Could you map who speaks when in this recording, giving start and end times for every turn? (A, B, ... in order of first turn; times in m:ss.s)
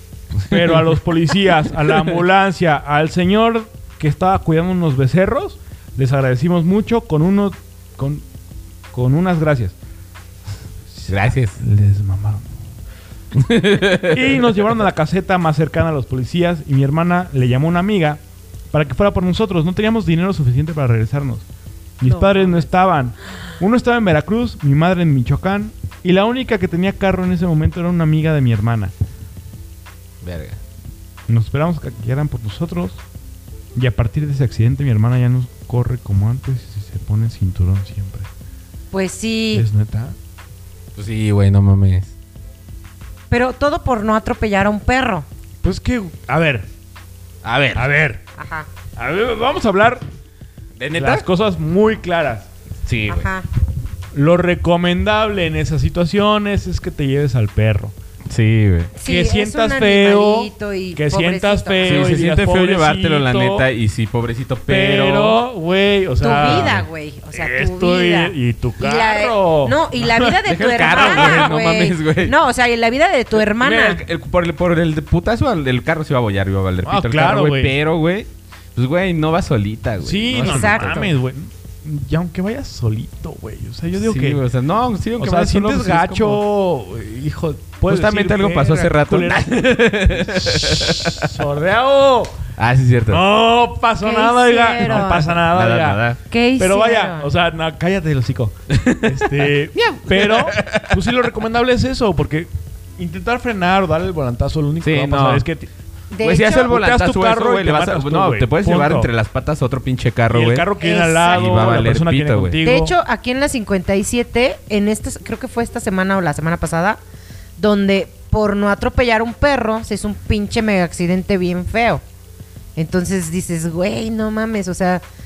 0:00.4-0:08.2 A
0:00.5-0:00.8 B
0:08.9-0:09.8 A
0:10.9-0:12.5 A
0:11.1-0:11.6 B
0:13.4-0:14.3 B
0:14.0-0:21.4 A
0:22.0-0:28.9 A
0:22.0-0:22.7 C
0:30.2-0:30.6 B
0:31.3-0:33.0 A
0:33.8-0:38.3 A
0:38.9-0:39.7 C
0:39.5-0:40.2 A
0:41.0-0:42.1 B
0:43.3-0:45.3 C
0:45.6-0:46.7 A
0:47.4-0:47.9 B
0:47.8-0:48.2 A
0:48.4-0:48.7 C
0:49.0-0:50.0 A
0:50.8-0:51.2 B
0:51.0-0:52.5 A
0:52.9-0:53.3 B
0:53.1-0:53.5 C
0:54.1-0:57.9 A
0:58.3-0:58.9 B
0:59.0-1:02.1 C
0:59.0-1:03.7 A
1:01.8-1:05.4 B
1:04.7-1:10.4 A
1:06.2-1:14.0 C
1:06.4-1:06.8 B
1:10.4-1:12.4 B
1:10.9-1:11.5 A
1:13.4-1:21.1 B
1:16.8-1:17.8 A
1:20.0-1:24.4 A
1:20.4-1:21.1 C
1:24.0-1:26.4 B
1:25.2-1:32.4 A
1:27.9-1:31.3 B
1:32.6-1:33.2 B
1:33.1-1:36.0 A
1:34.0-1:35.4 C
1:34.9-1:36.2 B
1:36.3-1:37.3 C
1:36.6-1:45.7 A
1:38.7-1:41.1 B
1:44.8-1:45.5 B
1:46.1-1:46.7 C
1:46.2-1:50.7 B
1:46.5-1:49.1 A
1:50.3-1:53.0 A
1:50.8-1:51.8 C
1:51.2-1:52.6 B
1:52.6-1:57.0 C
1:57.6-2:02.0 C
2:02.8-2:05.0 C